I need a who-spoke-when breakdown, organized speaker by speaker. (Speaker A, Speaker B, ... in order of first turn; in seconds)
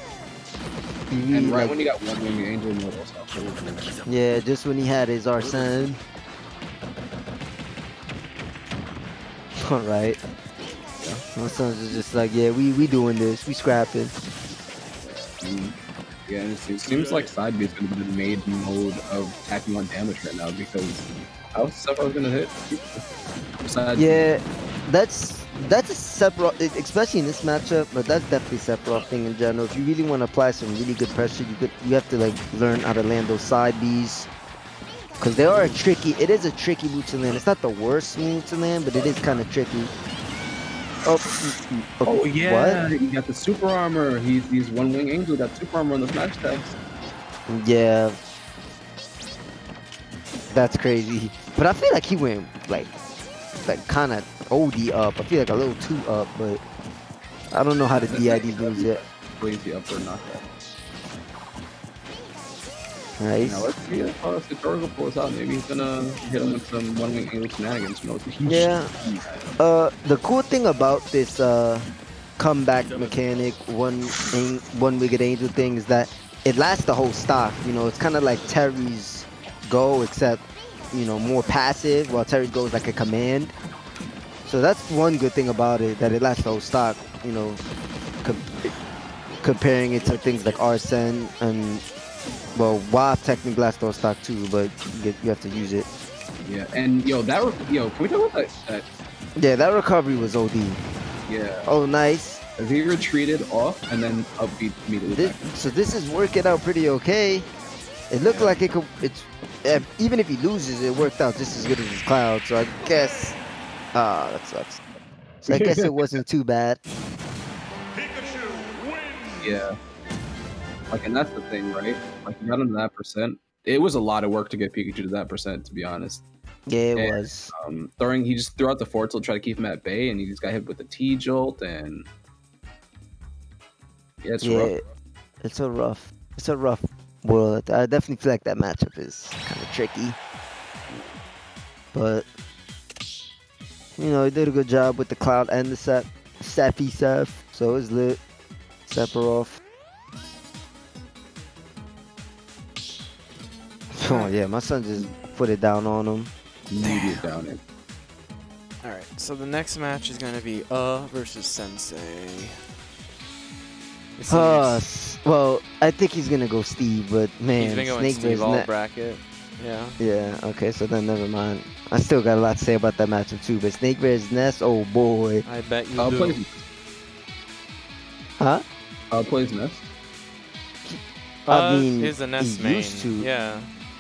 Speaker A: 1.1-1.8, 4.1-6.0, 9.6-10.2, 11.4-14.2, 23.9-34.3, 35.2-39.9, 41.0-42.8, 47.5-48.2, 50.5-52.9, 53.6-56.6, 57.5-59.0, 63.2-63.7, 68.5-68.9, 69.6-83.5, 84.5-87.6, 88.2-88.7, 89.4-91.8, 92.5-95.9, 99.4-100.8, 101.7-102.4, 105.1-107.5, 108.1-113.4, 113.9-114.8, 115.5-116.8, 126.7-127.5, 134.4-134.8, 135.4-140.2, 141.9-142.3, 144.0-148.2, 148.9-149.6, 153.9-156.3, 164.3-168.7, 170.0-175.4, 180.8-183.3
Speaker B: 1.3-3.9, 15.0-23.0, 23.6-24.3, 35.5-35.8, 39.0-39.4, 42.0-46.8, 57.9-60.5, 63.4-69.5, 96.5-98.8, 101.3-101.7, 102.6-105.6, 108.3-108.6, 115.5-116.0, 119.4-119.7, 120.9-126.2, 127.0-132.1, 134.2-134.8, 140.9-141.2, 156.7-157.6, 176.0-176.6, 179.1-179.9
Speaker C: 156.8-157.3, 158.8-162.6, 164.2-164.8, 167.6-170.0, 175.4-176.4, 181.5-183.7